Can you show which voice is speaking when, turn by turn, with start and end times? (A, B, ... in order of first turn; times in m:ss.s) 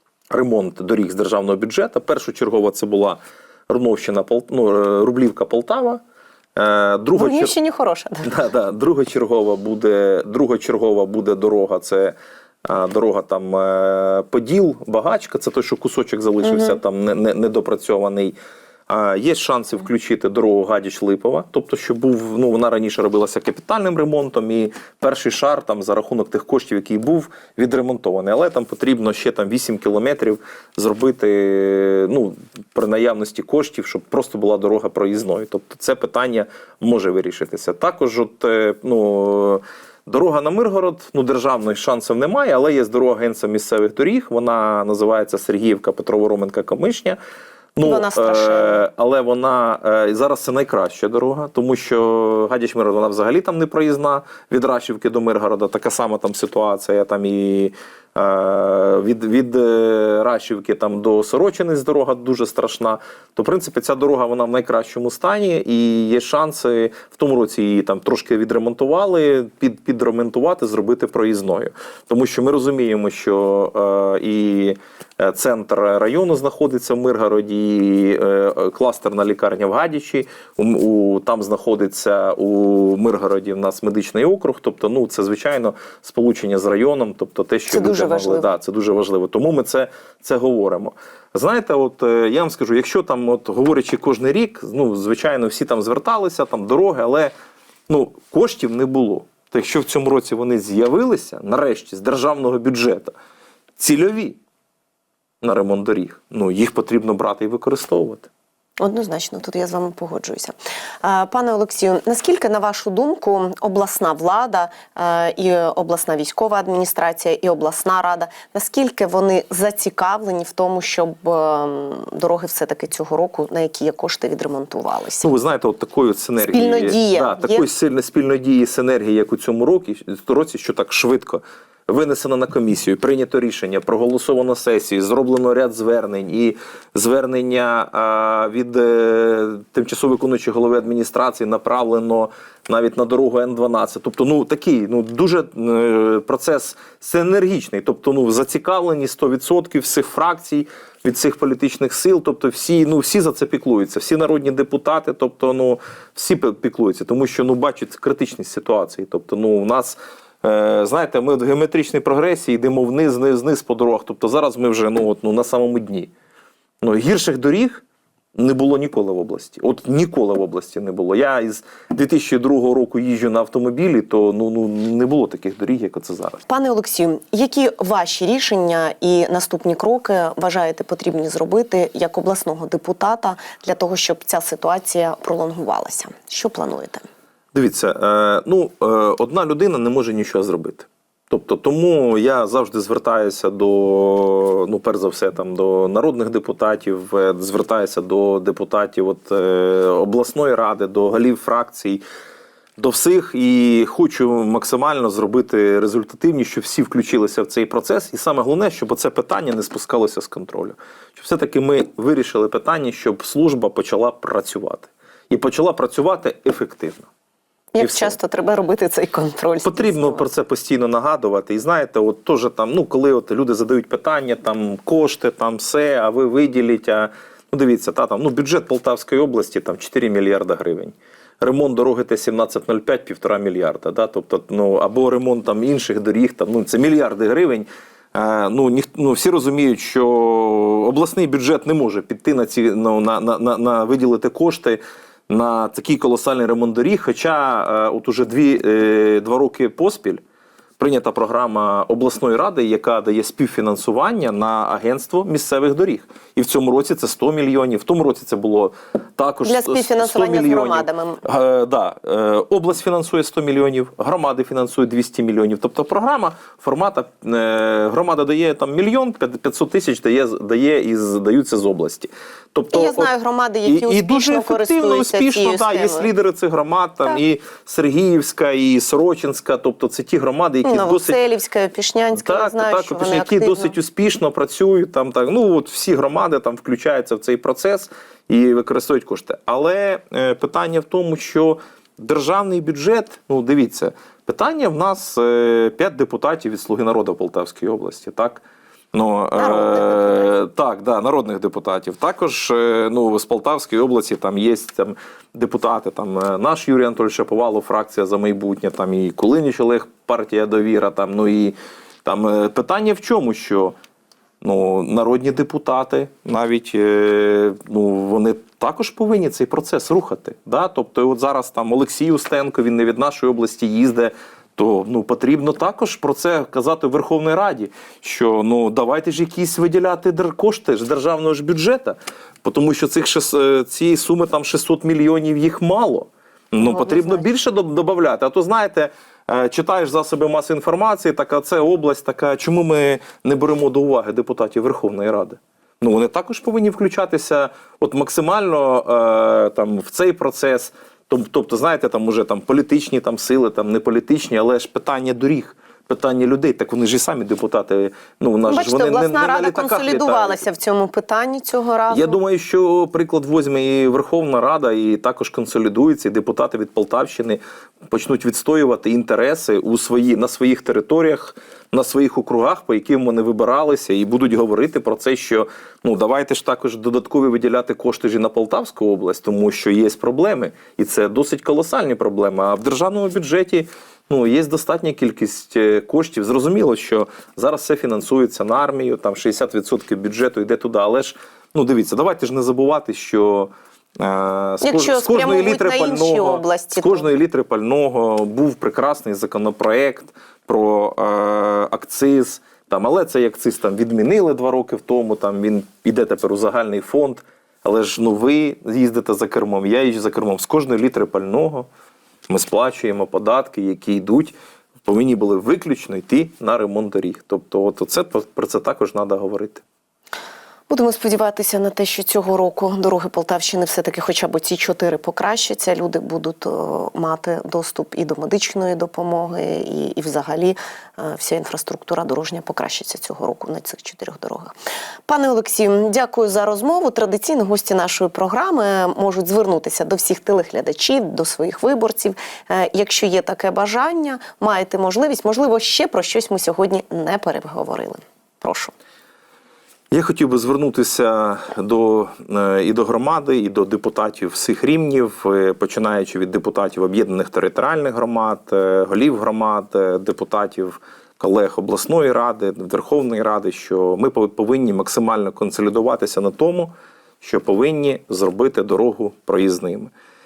0:00.3-0:06.0 A
0:06.6-0:07.5 A
0:07.1-0:08.3 B
0:08.2-0:18.4 A
0:16.4-0:16.8 B
0:18.9-0:47.2 A
0:47.8-1:37.3 A
0:47.8-0:48.8 B
1:27.7-1:28.5 B
1:37.9-1:43.1 A
1:43.8-1:44.4 A
1:45.4-1:48.3 A
1:48.8-2:05.3 B
2:05.2-2:46.1 A
2:06.4-2:07.6 B
2:46.8-2:47.8 A
2:48.3-2:56.4 A
2:56.5-3:07.0 B
3:07.5-3:22.0 A
3:22.8-3:37.1 A
3:37.7-3:40.3 B
3:37.8-3:38.1 A
3:39.6-4:10.2 A
4:10.8-4:33.1 A
4:19.4-4:21.2 B
4:32.7-4:36.1 B
4:33.6-4:41.2 A
4:40.6-4:43.7 B
4:42.1-5:13.7 A
4:59.4-5:00.3 B
5:14.4-6:00.4 A
5:36.6-5:37.2 B
5:58.5-6:02.2 B
6:01.9-6:51.7 A
6:34.6-6:37.1 B
6:52.3-6:59.6 A
7:00.7-7:14.5 B
7:15.1-7:28.7 B
7:29.9-7:49.9 A